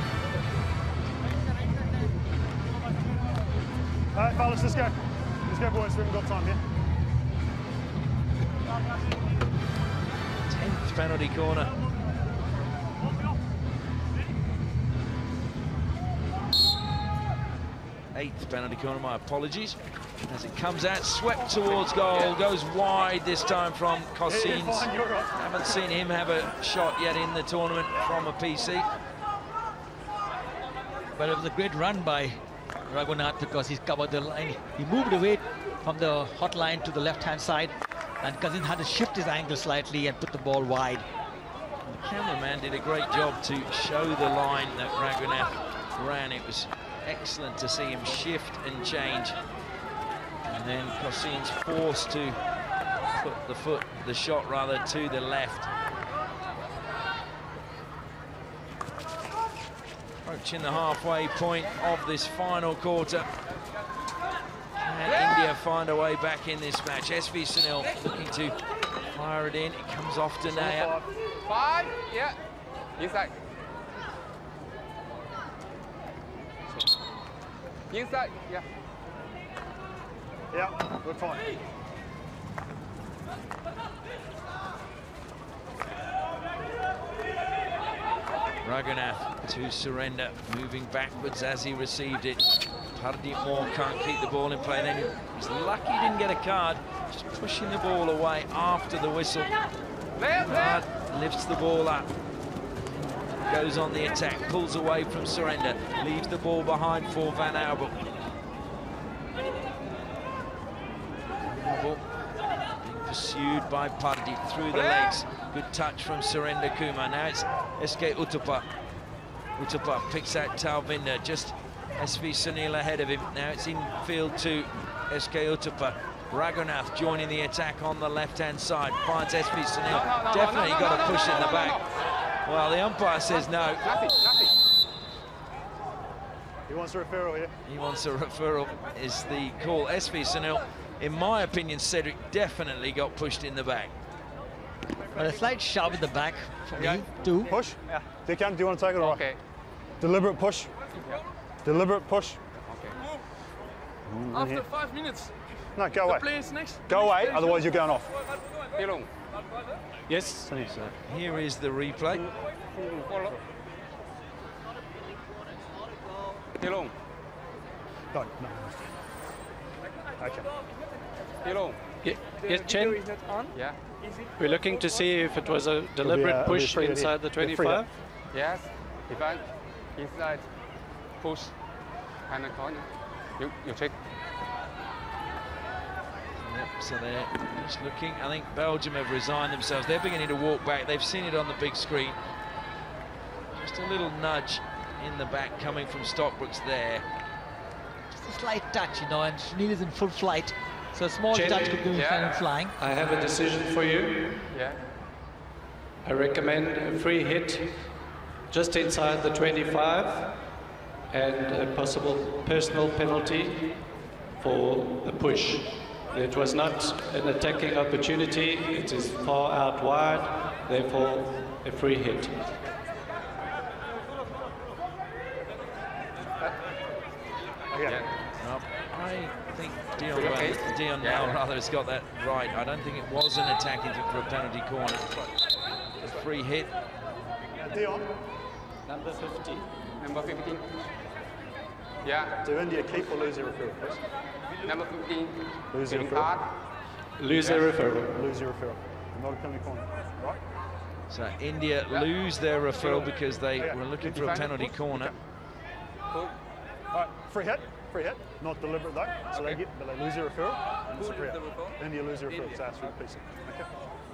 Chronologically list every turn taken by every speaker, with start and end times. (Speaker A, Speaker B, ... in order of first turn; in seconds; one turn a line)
Speaker A: 4.2-6.6
Speaker B: 10.5-11.8
Speaker B: 18.1-28.9
Speaker A: 24.3-25.4
Speaker C: 31.2-41.1
Speaker B: 41.9-49.4
Speaker B: 50.5-52.4
Speaker B: 53.1-55.7
Speaker B: 60.2-63.3
Speaker B: 64.8-68.6
Speaker B: 69.1-70.9
Speaker A: 70.5-71.1
Speaker D: 71.5-72.4
Speaker D: 73.0-73.3
Speaker D: 77.9-78.6
Speaker A: 80.5-81.5
Speaker B: 88.6-99.5
Speaker D: 100.2-100.5
Speaker B: 100.3-102.1
Speaker B: 102.8-108.0
Speaker B: 111.4-112.0
Speaker B: 112.8-118.7
Speaker B: 119.6-131.8
Speaker D: 129.9-131.9
Speaker B: 132.4-133.9
Speaker D: 133.8-134.6
Speaker A: 136.7-137.5
Speaker B: 137.7-143.9
Speaker C: 145.2-147.5
Speaker A: 146.8-149.2
Speaker D: 149.0-149.4
Speaker A: 150.0-150.7
Speaker A: 151.7-152.4
Speaker D: 152.6-153.0
Speaker A: 154.1-154.7
Speaker A: 155.8-158.1
Speaker D: 158.8-159.1
Speaker E: 160.1-160.5
Speaker A: 160.5-160.7
Speaker B: 160.7-162.3
Speaker D: 163.0-163.3
Speaker D: 166.6-166.9
Speaker A: 168.1-168.8
Speaker A: 170.2-170.5
Speaker D: 171.4-171.8
Speaker E: 172.0-173.3
Speaker D: 173.5-173.8
Speaker E: 174.4-177.9
Speaker A: 176.0-177.8
Speaker D: 178.3-180.5
Speaker D: 181.2-181.5
Speaker D: 182.3-184.0
Speaker B: 186.4-192.2
Speaker B: 193.5-197.1
Speaker C: 198.1-202.7
Speaker E: 201.3-201.9
Speaker D: 201.9-202.4
Speaker E: 202.8-204.4
Speaker D: 204.5-204.8
Speaker E: 206.0-207.9
Speaker E: 208.5-210.4
Speaker E: 211.1-213.8
Speaker E: 214.4-222.6
Speaker A: 227.7-228.0
Speaker B: 228.4-235.1
Speaker D: 230.1-231.4
Speaker B: 236.0-236.7
Speaker A: 237.6-238.1
Speaker E: 238.9-239.7
Speaker D: 240.0-240.7
Speaker D: 242.0-242.3
Speaker A: 242.4-244.0
Speaker D: 244.6-246.4
Speaker A: 245.7-246.3
Speaker E: 247.2-248.2
Speaker A: 247.3-250.4
Speaker B: 251.1-255.1
Speaker A: 253.6-255.1
Speaker D: 254.2-254.6
Speaker A: 256.9-263.7